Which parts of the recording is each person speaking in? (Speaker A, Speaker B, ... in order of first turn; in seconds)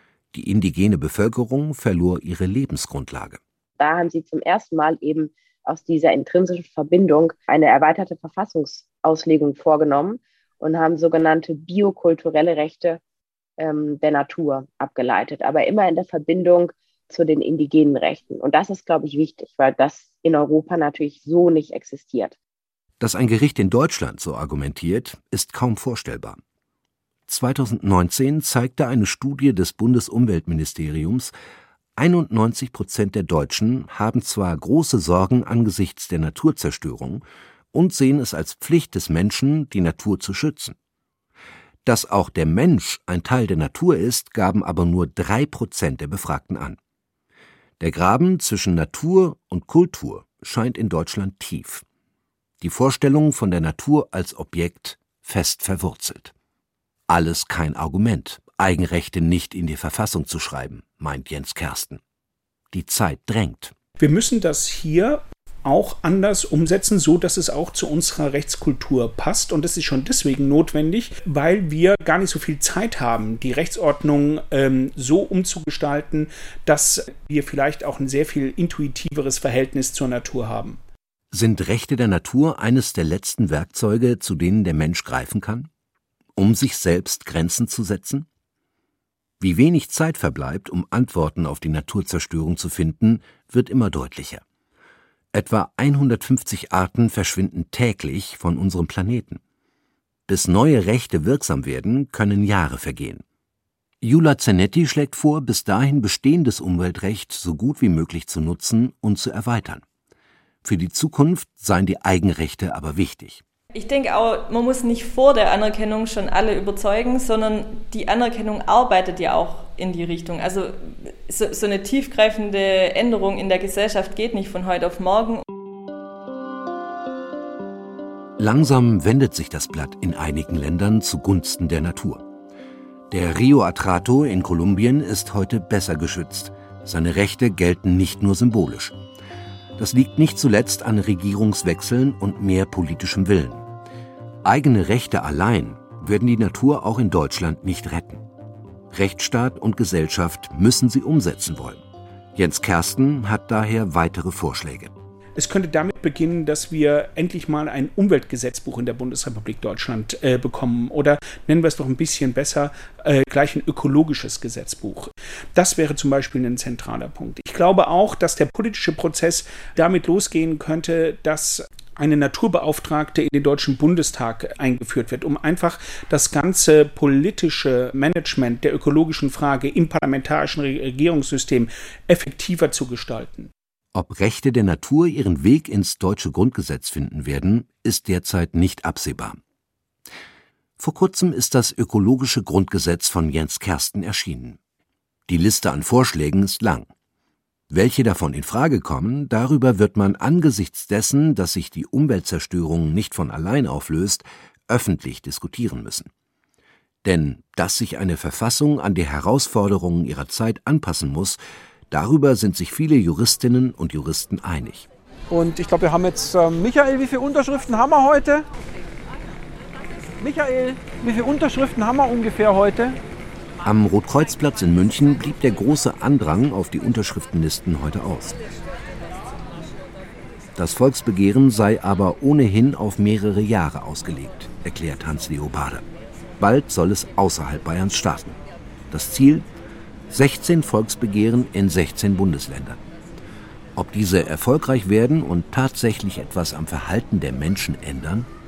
Speaker A: 0.3-3.4, 23.0-26.4, 27.3-31.3, 32.0-40.8, 41.9-46.8, 47.8-51.8, 52.6-56.3, 57.1-62.0, 62.7-63.7, 81.3-85.7, 86.4-88.3, 89.4-94.4, 95.3-99.4, 100.3-103.2, 104.0-109.8, 110.6-113.4, 128.4-132.2, 133.1-139.0, 139.8-143.6, 144.4-148.2, 148.9-151.8, 152.3-154.9, 183.9-189.4, 190.8-194.6, 195.3-196.9, 197.7-206.1, 207.0-211.4, 211.9-214.9, 223.7-228.4, 230.6-235.8, 236.4-238.4, 238.9-239.5, 240.1-242.8, 243.8-248.3
Speaker B: 3.8-13.0, 13.6-22.4
Speaker C: 64.0-80.8, 155.4-183.5
Speaker D: 113.8-125.4
Speaker E: 215.3-218.4, 220.2-223.0